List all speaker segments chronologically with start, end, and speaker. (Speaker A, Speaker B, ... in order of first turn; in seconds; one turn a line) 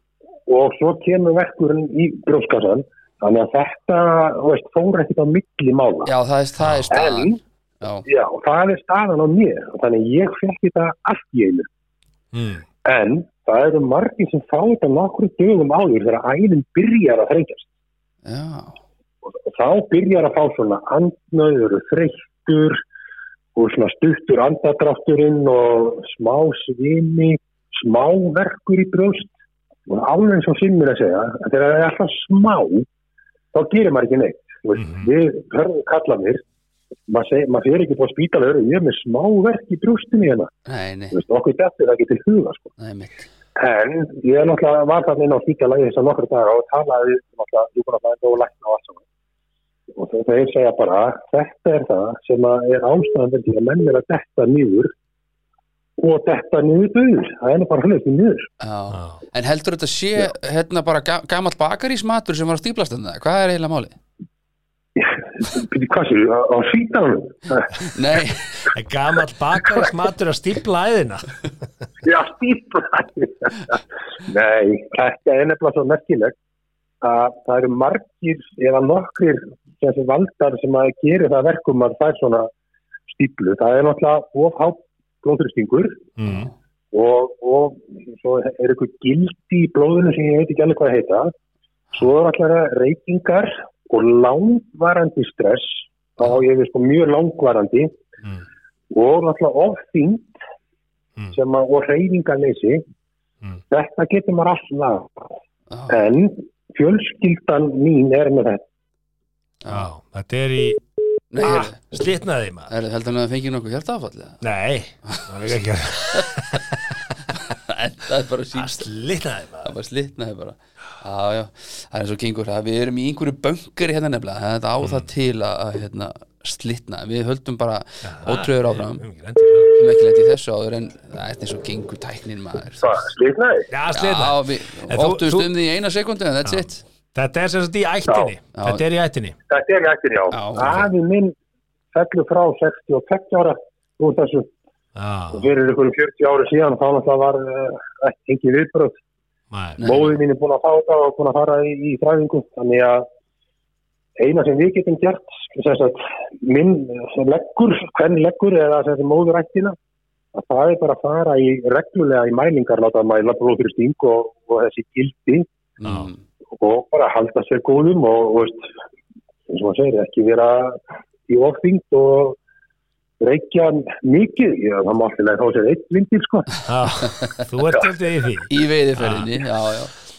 Speaker A: 0.5-6.1
Speaker B: 6.0-8.1
Speaker A: 6.9-7.4
Speaker A: 8.1-11.7
Speaker C: 12.3-12.6
Speaker A: 12.8-17.7
Speaker B: 18.2-18.8
Speaker A: 19.4-22.8
Speaker A: 23.6-29.3
Speaker A: 29.9-32.9
Speaker A: 33.5-36.4
Speaker C: 34.8-35.1
Speaker A: 37.1-40.5
Speaker B: 40.7-41.2
Speaker A: 41.1-42.7
Speaker B: 42.8-43.3
Speaker A: 43.6-49.0
Speaker A: 50.0-54.9
Speaker A: 56.0-58.5
Speaker B: 58.6-64.0
Speaker C: 58.9-59.2
Speaker A: 65.0-67.9
Speaker B: 67.9-68.6
Speaker C: 68.7-71.4
Speaker A: 72.0-76.4
Speaker A: 77.0-82.5
Speaker A: 83.1-86.1
Speaker C: 86.2-86.5
Speaker B: 86.3-86.5
Speaker A: 86.9-91.3
Speaker A: 91.9-97.9
Speaker A: 98.9-100.3
Speaker A: 101.3-102.8
Speaker A: 103.7-105.3
Speaker B: 105.7-106.0
Speaker A: 105.9-108.6
Speaker C: 109.7-110.8
Speaker B: 111.3-111.8
Speaker C: 111.4-112.7
Speaker B: 112.7-114.4
Speaker C: 114.4-116.8
Speaker B: 117.3-118.9
Speaker C: 118.5-119.7
Speaker B: 119.6-129.0
Speaker C: 124.8-125.1
Speaker C: 128.1-129.8
Speaker B: 129.8-133.1
Speaker A: 132.8-133.7
Speaker C: 133.7-135.5
Speaker B: 133.9-136.8
Speaker C: 137.2-139.4
Speaker B: 138.6-138.8
Speaker A: 139.5-141.4
Speaker B: 140.3-140.8
Speaker A: 141.9-144.5
Speaker C: 144.9-145.5
Speaker A: 145.3-149.0
Speaker C: 149.5-149.8
Speaker B: 149.8-150.2
Speaker A: 149.8-153.1
Speaker A: 154.2-159.8
Speaker A: 160.3-165.5
Speaker B: 165.8-166.2
Speaker C: 165.8-166.1
Speaker A: 166.6-168.7
Speaker A: 169.5-172.4
Speaker A: 173.2-176.6
Speaker C: 176.7-179.3
Speaker B: 178.5-179.9